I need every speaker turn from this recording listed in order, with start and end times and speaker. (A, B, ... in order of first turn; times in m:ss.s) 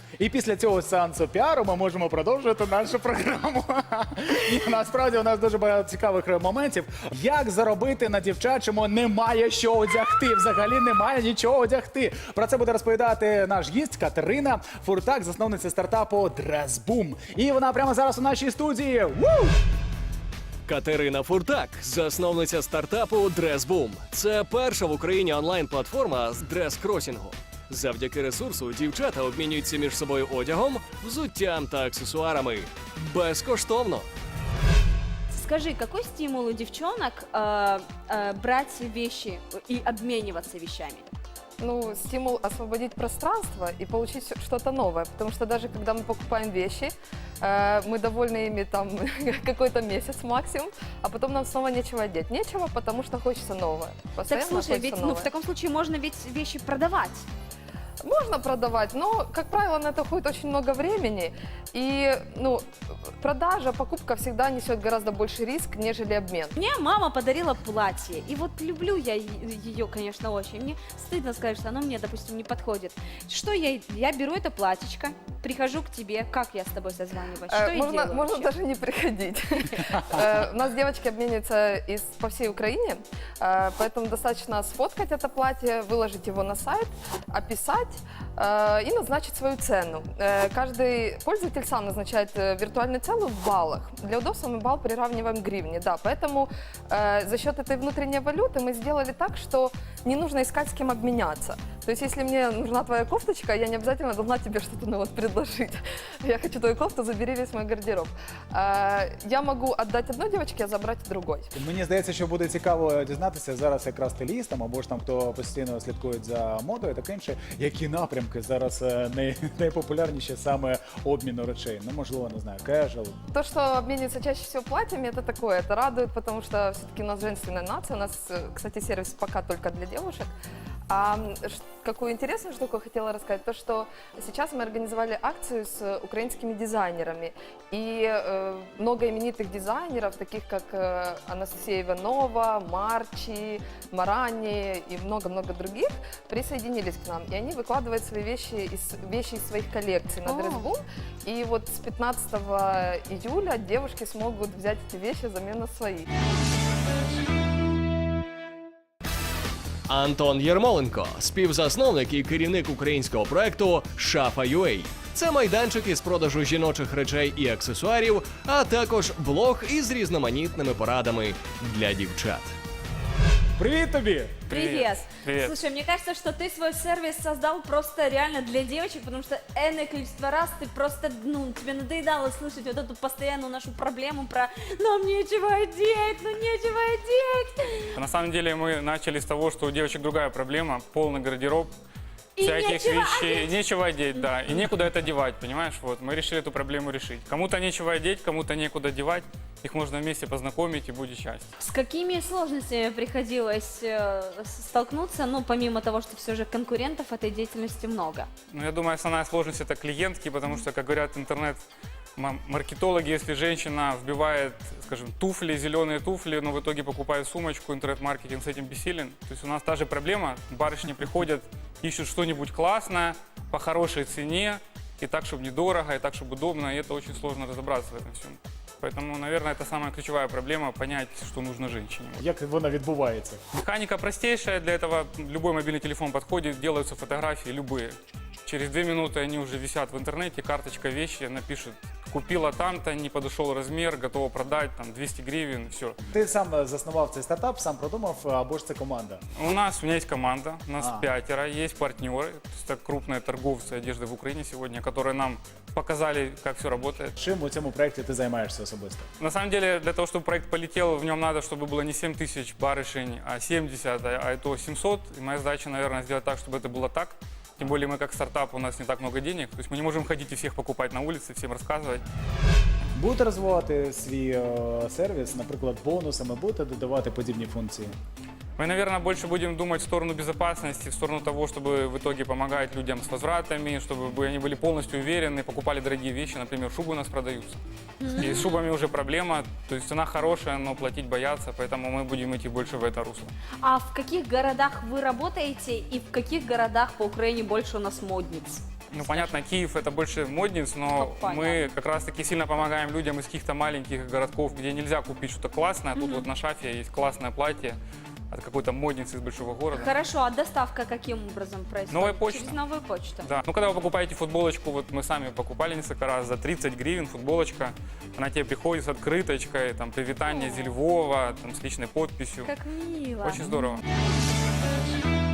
0:00.2-0:19.6 A
0:20.7-0:34.1 B
0:35.3-0:41.1 C
0:41.6-0:55.3 D
0:54.3-0:57.2 C
0:58.0-1:02.6 D
1:03.2-1:06.5 D
1:06.5-1:18.5 C
1:17.5-1:51.5 D
1:51.6-2:03.2 A
2:03.3-2:10.3 D
2:10.9-2:36.1 D
2:30.3-2:30.6 C
2:39.9-2:52.6 B
2:53.6-2:54.4 A
2:54.5-2:55.6 E
2:54.5-3:07.9 C
3:08.0-3:11.7 E
3:12.4-3:13.5 C
3:12.4-3:21.5 E
3:21.6-3:28.3 C
3:28.5-3:31.6 E
3:32.2-3:52.2 E
3:52.2-3:53.4 A
3:53.5-4:06.0 E
4:06.1-4:09.2 A
4:09.4-4:17.2 E
4:10.8-4:11.1 A
4:17.2-4:19.1 A
4:19.2-4:32.0 E
4:33.0-4:37.9 A
4:38.6-4:47.6 E
4:48.0-4:48.6 C
4:48.2-4:53.3 E
4:53.6-4:59.3 C
4:58.9-5:07.8 E
5:00.9-5:01.7 C
5:06.0-5:06.3 C
5:08.3-5:09.9 E
5:09.7-5:13.3 C
5:11.9-5:12.6 E
5:13.2-5:22.5 E
5:20.3-5:20.7 C
5:22.4-5:23.5 C
5:23.2-5:23.8 E